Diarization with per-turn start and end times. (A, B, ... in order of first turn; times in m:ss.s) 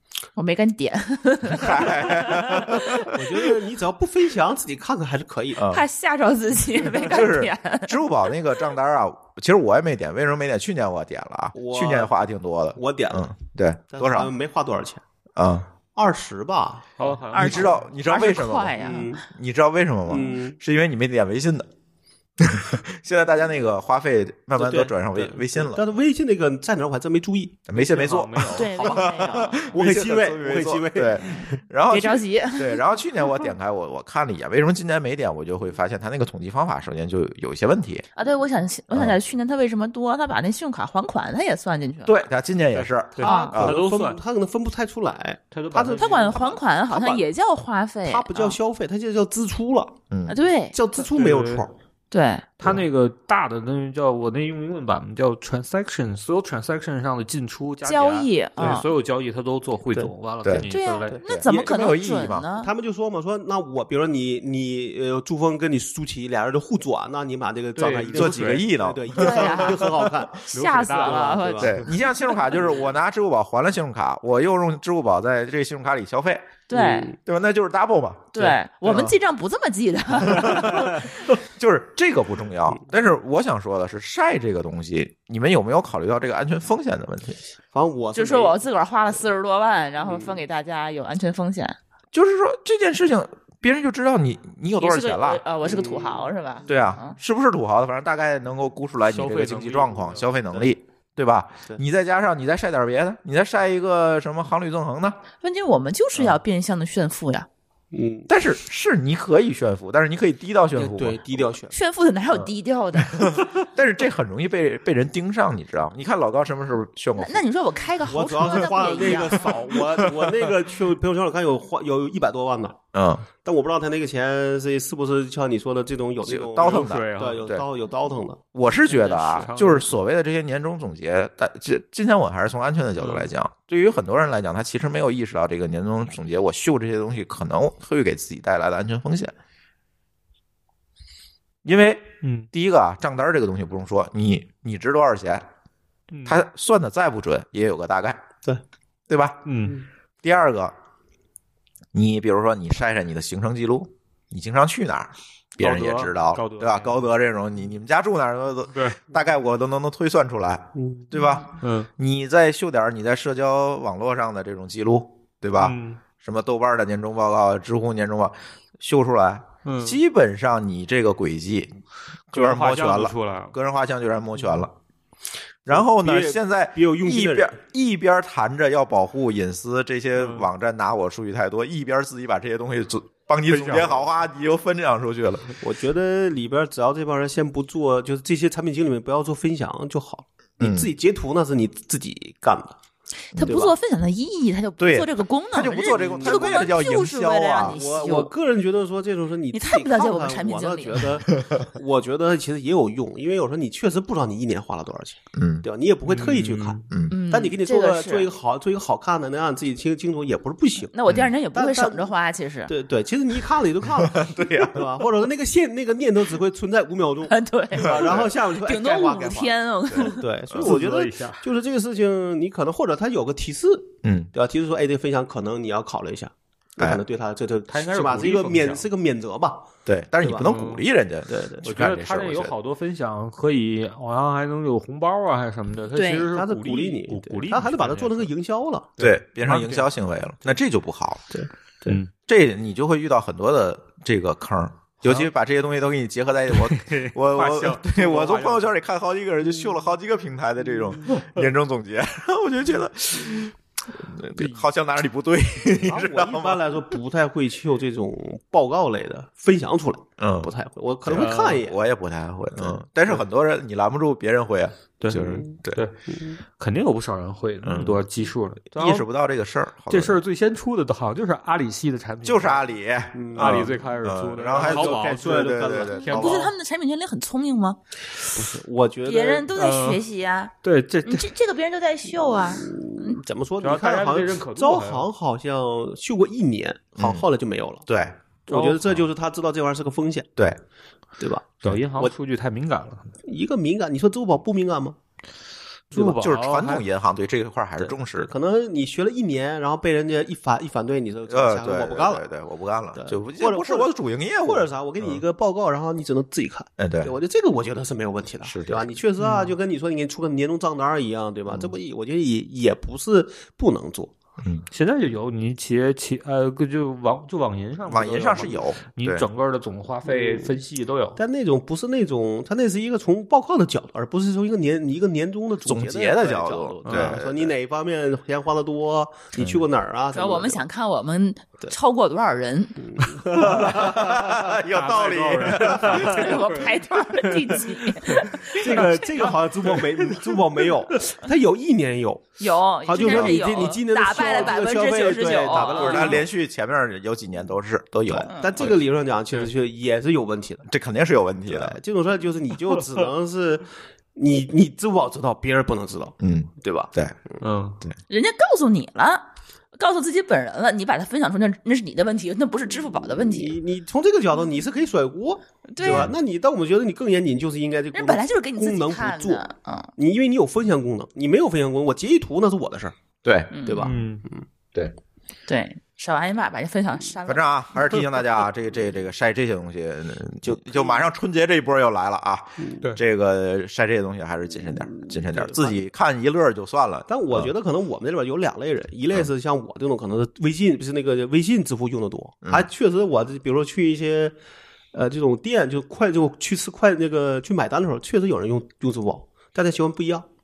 0:00.4-0:03.2 A
0:01.5-0:03.1 B
0:03.0-0:05.6 C
0:05.6-0:05.9 B
0:05.7-0:08.0 A
0:06.9-0:14.3 B
0:11.6-0:12.1 C
0:12.8-0:13.3 C
0:13.9-0:15.0 C
0:15.4-0:15.7 B
0:16.0-0:17.2 C
0:17.0-0:17.8 D
0:17.3-0:19.1 A
0:17.3-0:21.7 B
0:18.8-0:19.2 C
0:20.1-0:20.6 C
0:22.4-0:25.8 B
0:24.6-0:27.6 C
0:27.7-0:38.1 B
0:27.7-0:29.1 D
0:28.5-0:29.7 A
0:29.7-0:31.6 C
0:31.9-0:32.8 A
0:38.2-0:42.2 A
0:38.9-0:39.2 B
0:42.0-0:43.8 B
0:42.7-0:44.2 D
0:43.2-0:43.6 A
0:43.2-0:47.3 C
0:45.5-0:46.6 D
0:46.0-0:48.6 A
0:48.0-0:50.0 C
0:50.1-0:50.4 B
0:50.3-0:50.8 A
0:50.7-0:51.7 C
0:51.0-0:51.6 D
0:52.1-0:52.5 A
0:52.6-1:01.2 D
0:57.8-0:58.9 A
1:00.6-1:02.7 A
1:01.1-1:01.9 C
1:01.2-1:02.5 B
1:02.6-1:11.8 C
1:07.8-1:08.7 D
1:08.1-1:10.0 B
1:09.2-1:09.8 A
1:10.4-1:12.6 A
1:10.5-1:11.4 D
1:11.6-1:16.6 B
1:16.7-1:17.1 A
1:16.7-1:17.2 C
1:17.2-1:19.2 B
1:18.4-1:21.2 A
1:20.2-1:27.4 B
1:27.7-1:28.6 C
1:28.1-1:31.8 A
1:30.0-1:30.4 C
1:32.1-1:35.4 B
1:34.8-1:37.2 A
1:35.6-1:36.3 C
1:36.7-1:45.2 B
1:39.0-1:40.3 D
1:45.4-1:47.5 A
1:46.1-1:46.4 B
1:47.9-1:48.3 C
1:48.3-1:51.5 B
1:50.8-1:51.7 C
1:51.7-1:53.4 A
1:53.0-1:57.4 B
1:57.2-1:59.8 A
1:58.0-2:02.8 C
2:02.9-2:03.3 B
2:03.4-2:08.4 C
2:06.2-2:07.6 B
2:06.6-2:07.4 D
2:08.5-2:19.3 B
2:08.8-2:10.0 D
2:13.0-2:13.3 D
2:21.6-2:25.5 B
2:22.2-2:22.5 D
2:26.1-2:26.4 D
2:26.3-2:28.2 B
2:29.1-2:29.5 B
2:29.5-2:29.8 D
2:30.2-2:30.7 B
2:31.9-2:51.7 B
2:35.6-2:37.0 D
2:38.7-2:39.0 D
2:40.8-2:41.1 C
2:41.6-2:41.9 D
2:45.6-2:46.0 D
2:49.6-2:50.0 D
2:52.3-2:54.7 B
2:52.3-2:53.6 D
2:55.7-3:05.6 B
2:55.7-2:57.6 C
3:00.2-3:00.5 D
3:03.5-3:04.1 D
3:05.6-3:12.8 C
3:10.6-3:10.9 B
3:13.3-3:18.3 A
3:13.3-3:13.6 B
3:13.4-3:13.8 C
3:14.8-3:17.8 B
3:15.9-3:16.8 C
3:17.6-3:30.9 C
3:19.5-3:21.2 A
3:25.3-3:25.6 B
3:26.1-3:26.8 D
3:26.9-3:27.2 B
3:27.1-3:28.3 A
3:30.9-3:32.7 A
3:31.1-3:31.3 B
3:31.5-3:32.1 C
3:32.7-3:50.5 C
3:33.9-3:34.8 B
3:37.3-3:40.2 A
3:37.8-3:38.3 B
3:39.9-3:40.7 B
3:40.6-3:41.4 D
3:44.0-3:44.3 B
3:47.7-3:48.9 D
3:49.9-3:52.5 B
3:50.4-3:50.8 D
3:51.3-3:51.7 C
3:51.6-3:58.3 D
3:55.9-3:56.3 A
3:56.3-3:58.9 C
3:59.0-3:59.9 D
3:59.0-4:01.2 B
4:01.3-4:02.0 C
4:02.3-4:16.7 B
4:06.5-4:08.7 D
4:15.8-4:21.8 C
4:20.2-4:20.5 B
4:21.0-4:25.8 B
4:21.1-4:21.6 D
4:22.6-4:23.2 C
4:25.0-4:26.0 D
4:26.1-4:26.4 C
4:26.6-4:29.1 D
4:27.6-4:28.0 B
4:28.7-4:30.2 B
4:29.9-4:32.7 D
4:32.2-4:36.5 B
4:33.1-4:33.8 C
4:33.4-4:36.5 D
4:34.6-4:36.5 C
4:36.0-4:37.8 A
4:38.3-4:39.5 C
4:39.0-4:40.5 A
4:39.5-4:40.0 D
4:40.6-4:41.3 D
4:41.0-4:43.2 A
4:42.5-4:47.9 C
4:43.6-4:45.1 D
4:47.0-4:47.2 B
4:47.9-4:48.2 B
4:48.5-4:50.3 C
4:48.5-4:48.9 D
4:51.2-4:52.1 C
4:51.6-4:53.1 D
4:53.2-4:55.0 C
4:55.9-4:56.2 C
4:55.9-4:56.8 D
4:56.2-4:58.3 B
4:57.8-5:02.2 C
5:01.3-5:05.2 B
5:03.0-5:03.9 C
5:04.4-5:14.1 C
5:06.8-5:07.2 B
5:08.4-5:09.0 B
5:09.2-5:09.6 D
5:14.4-5:14.7 B
5:14.7-5:21.2 D
5:17.9-5:19.3 B
5:20.1-5:20.6 C
5:21.2-5:30.6 C
5:25.6-5:27.5 B
5:26.8-5:27.2 D
5:29.4-5:29.6 B
5:30.1-5:33.4 A
5:32.8-5:34.1 C
5:33.4-5:36.8 D
5:33.4-5:36.3 B
5:35.9-5:39.2 A
5:38.1-5:39.0 D
5:38.1-5:46.2 C
5:39.7-5:40.0 D
5:42.4-5:46.2 A
5:43.0-5:43.4 B
5:45.5-5:48.7 B
5:48.1-5:50.7 C
5:50.7-5:51.8 B
5:51.5-5:57.4 C
5:56.2-5:57.2 B
5:57.4-5:57.8 D
5:58.1-6:03.6 A
6:03.0-6:09.4 C
6:05.7-6:06.1 A
6:05.8-6:06.1 B
6:07.9-6:09.9 A
6:10.0-6:13.0 C
6:13.2-6:13.5 B
6:13.5-6:13.9 A
6:13.5-6:14.5 C
6:13.8-6:14.2 D
6:15.5-6:17.4 A
6:17.2-6:27.5 B
6:20.4-6:21.0 C
6:24.9-6:25.8 C
6:27.1-6:34.4 C
6:34.9-6:40.3 C